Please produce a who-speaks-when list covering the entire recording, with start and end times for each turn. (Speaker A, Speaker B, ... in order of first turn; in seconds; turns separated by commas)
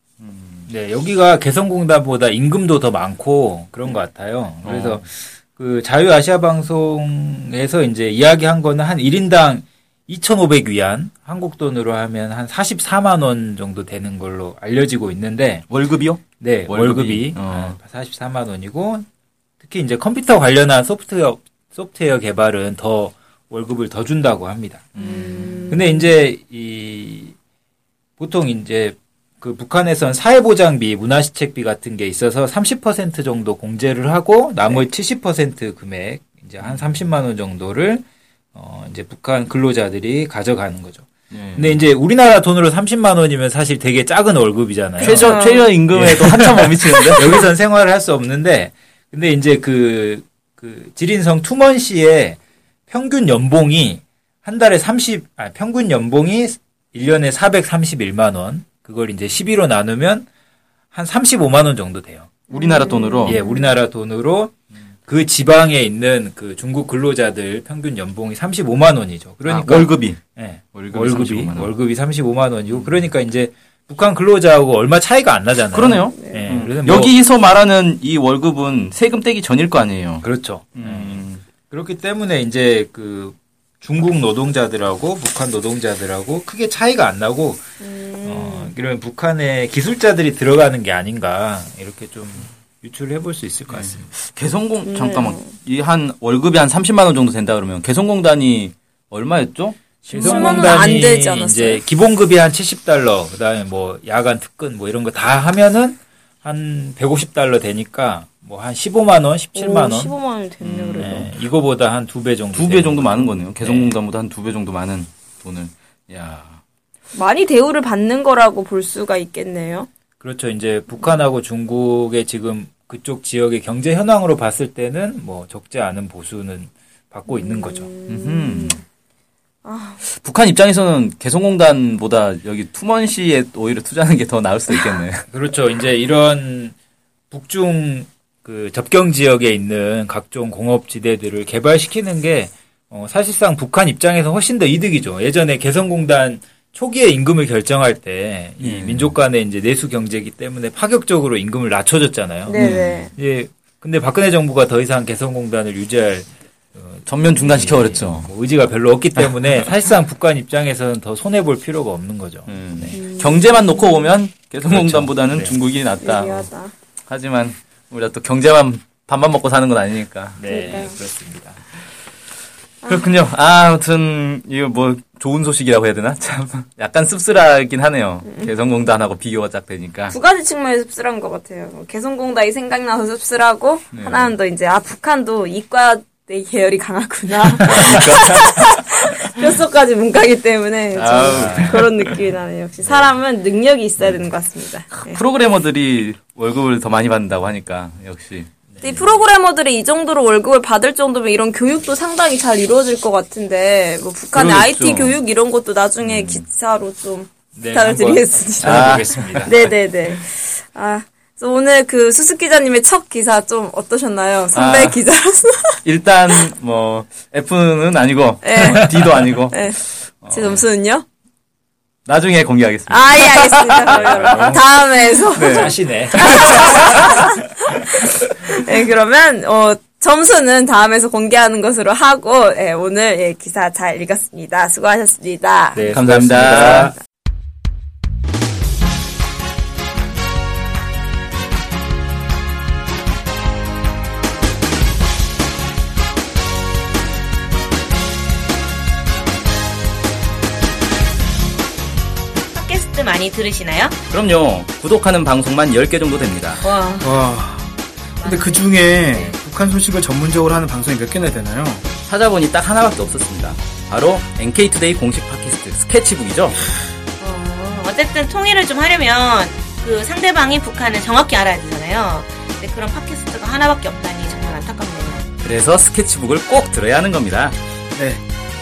Speaker A: 0.2-0.7, Speaker B: 0.7-15.7, Speaker A: 4.6-5.1, Speaker A: 15.7-17.8, Speaker B: 16.4-19.1, Speaker B: 19.6-27.3, Speaker A: 24.9-25.6, Speaker C: 25.0-26.0, Speaker B: 28.2-45.4, Speaker A: 41.3-41.8, Speaker A: 45.0-47.5, Speaker C: 45.1-45.7, Speaker B: 45.9-60.3, Speaker B: 60.9-62.5, Speaker A: 62.5-63.4, Speaker C: 62.5-63.7, Speaker B: 63.2-64.5, Speaker B: 65.0-77.1, Speaker A: 69.5-70.2, Speaker A: 70.7-71.7, Speaker A: 72.7-73.1, Speaker A: 75.7-81.4, Speaker C: 76.2-76.4, Speaker B: 80.2-87.7, Speaker C: 87.8-88.7, Speaker B: 88.2-94.1, Speaker A: 93.7-100.9, Speaker C: 94.8-95.5, Speaker B: 100.0-110.1, Speaker C: 100.1-101.8, Speaker C: 109.5-111.3, Speaker A: 110.6-111.2, Speaker B: 111.0-113.9, Speaker A: 112.5-116.6, Speaker C: 117.1-119.9, Speaker B: 120.2-127.9, Speaker C: 127.3-128.8, Speaker A: 128.1-128.8, Speaker C: 129.6-130.0, Speaker A: 130.0-135.2, Speaker B: 135.3-136.7, Speaker B: 137.3-152.6, Speaker A: 148.6-149.1, Speaker C: 152.4-153.1, Speaker A: 152.5-153.1, Speaker B: 153.2-163.0, Speaker A: 157.1-158.3, Speaker A: 159.2-159.5, Speaker A: 162.5-166.5, Speaker C: 162.9-164.1, Speaker B: 164.6-165.6, Speaker C: 166.0-166.7, Speaker A: 167.1-170.5, Speaker B: 170.4-171.6, Speaker C: 170.5-170.9, Speaker C: 172.8-173.1, Speaker A: 172.8-180.2, Speaker C: 178.2-178.5, Speaker C: 180.1-195.2, Speaker A: 183.9-184.3, Speaker A: 187.6-188.8, Speaker A: 190.9-192.2, Speaker B: 191.3-191.8, Speaker A: 192.8-193.1, Speaker A: 194.0-194.3, Speaker A: 194.9-198.5, Speaker B: 198.7-199.1, Speaker C: 198.8-215.8, Speaker A: 204.3-205.2, Speaker A: 206.0-206.4, Speaker B: 207.5-209.7, Speaker A: 208.6-209.5, Speaker A: 214.5-215.0, Speaker A: 215.8-220.6, Speaker C: 218.4-218.9, Speaker C: 219.5-221.0, Speaker A: 222.1-224.5, Speaker C: 222.9-235.9, Speaker B: 223.8-224.8, Speaker A: 225.3-225.7, Speaker B: 225.3-227.0, Speaker A: 226.3-226.9, Speaker B: 235.7-236.9, Speaker A: 235.9-236.9, Speaker D: 252.5-253.9, Speaker A: 254.1-256.6, Speaker C: 256.6-257.1, Speaker D: 256.7-257.0, Speaker E: 257.0-261.8, Speaker D: 258.2-259.4, Speaker A: 262.1-266.6, Speaker D: 267.2-275.2, Speaker A: 275.4-277.6, Speaker E: 277.9-278.2